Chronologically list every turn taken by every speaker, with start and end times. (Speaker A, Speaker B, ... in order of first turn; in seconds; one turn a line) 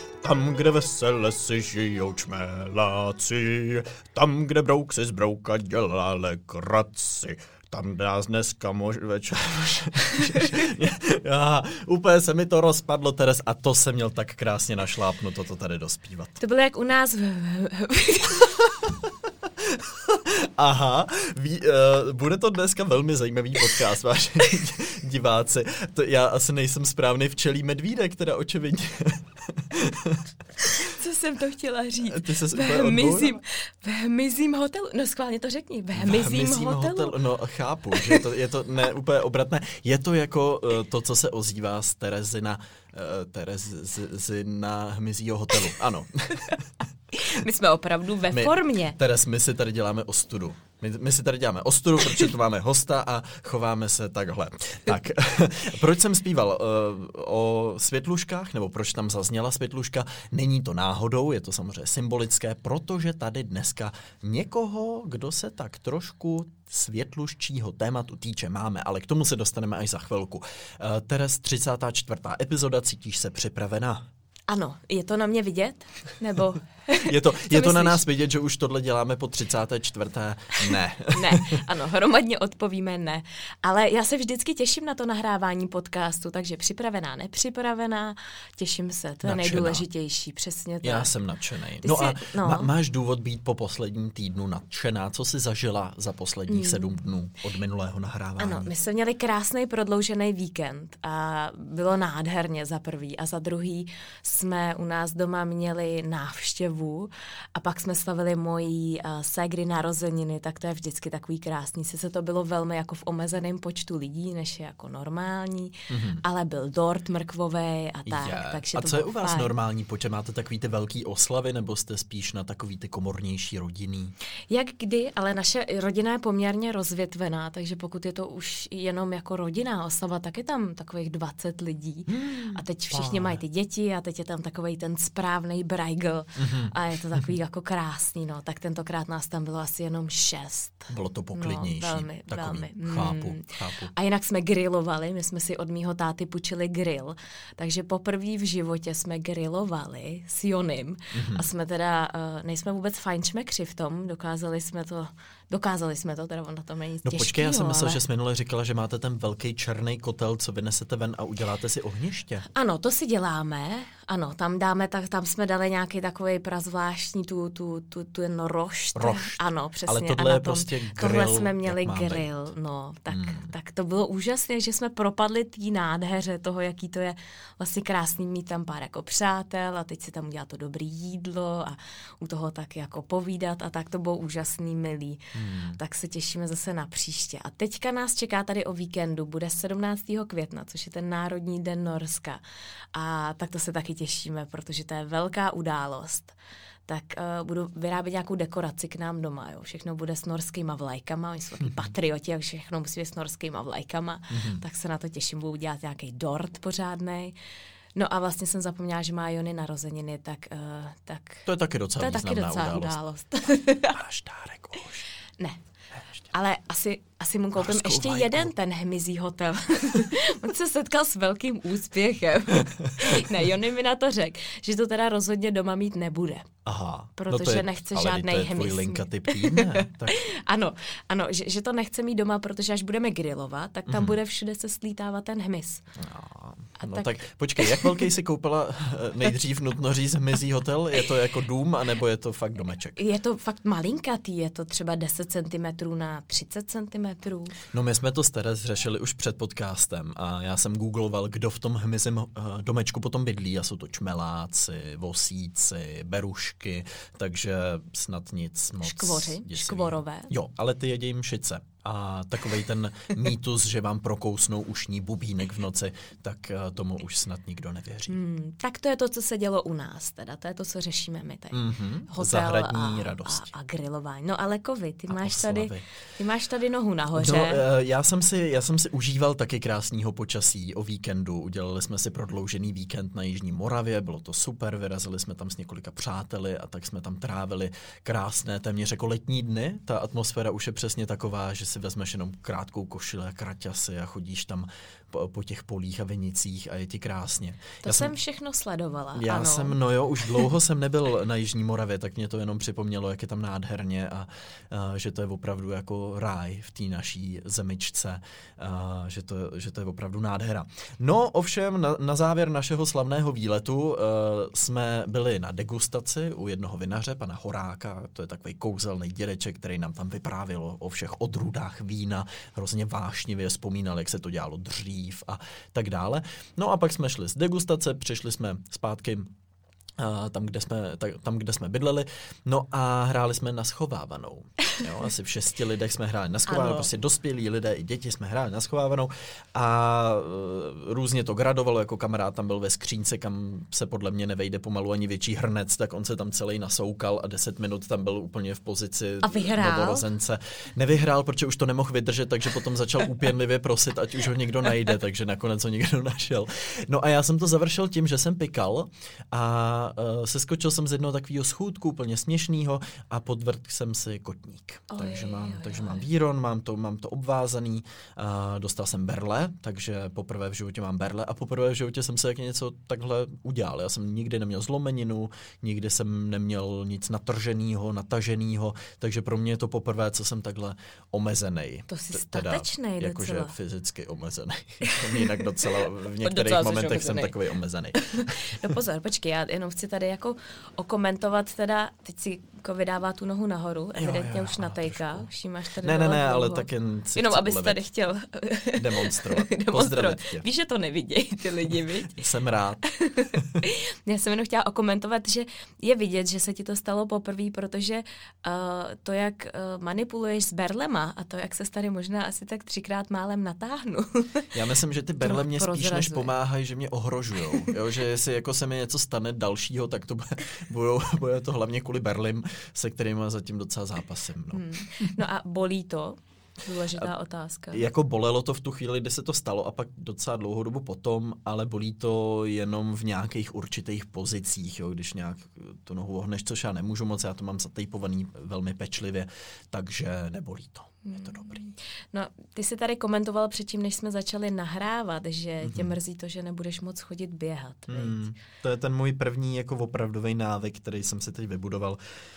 Speaker A: 0.2-16.4
Speaker B: 16.4-18.5
Speaker A: 19.5-30.2
Speaker B: 30.6-37.2
Speaker A: 32.0-33.4
Speaker A: 36.0-47.4
Speaker B: 38.0-38.2
Speaker B: 47.1-49.0
Speaker A: 48.3-74.1
Speaker B: 74.5-78.0
Speaker A: 77.0-81.6
Speaker B: 81.1-91.1
Speaker A: 89.2-89.8
Speaker A: 90.8-98.7
Speaker B: 91.8-92.7
Speaker B: 96.5-97.0
Speaker B: 98.4-119.5
Speaker A: 115.9-116.2
Speaker A: 118.1-124.1
Speaker B: 124.5-158.0
Speaker A: 132.1-133.4
Speaker A: 136.4-137.3
Speaker A: 140.9-143.9
Speaker A: 151.1-151.5
Speaker A: 157.0-162.5
Speaker B: 162.6-192.4
Speaker A: 168.9-172.3
Speaker A: 173.1-173.5
Speaker A: 185.3-185.8
Speaker B: 192.9-196.3
Speaker B: 196.9-207.3
Speaker A: 204.3-204.6
Speaker B: 208.0-214.0
Speaker A: 211.5-213.0
Speaker A: 213.9-215.1
Speaker B: 216.3-226.5
Speaker A: 217.6-218.5
Speaker A: 222.7-223.2
Speaker A: 226.7-230.2
Speaker B: 227.2-235.8
Speaker A: 233.9-234.2
Speaker A: 236.0-243.0
Speaker B: 236.8-238.1
Speaker B: 243.0-247.6
Speaker A: 247.7-268.2
Speaker B: 258.8-260.3
Speaker B: 268.1-277.6
Speaker A: 271.5-273.5
Speaker A: 275.1-275.8
Speaker A: 277.2-298.1
Speaker B: 297.8-299.8
Speaker A: 299.1-329.3
Speaker A: 330.0-388.6
Speaker B: 336.5-336.9
Speaker B: 349.2-350.1
Speaker B: 364.9-366.1
Speaker B: 381.9-383.5
Speaker B: 384.8-385.4
Speaker B: 386.2-387.3
Speaker B: 388.0-402.2
Speaker A: 394.0-395.3
Speaker A: 395.8-397.9
Speaker A: 398.8-400.4
Speaker A: 402.1-402.8
Speaker B: 402.9-414.5
Speaker A: 414.5-425.1
Speaker B: 415.2-416.3
Speaker B: 424.5-427.9
Speaker A: 427.7-441.6
Speaker B: 441.1-448.2
Speaker A: 445.6-445.9
Speaker A: 447.9-452.0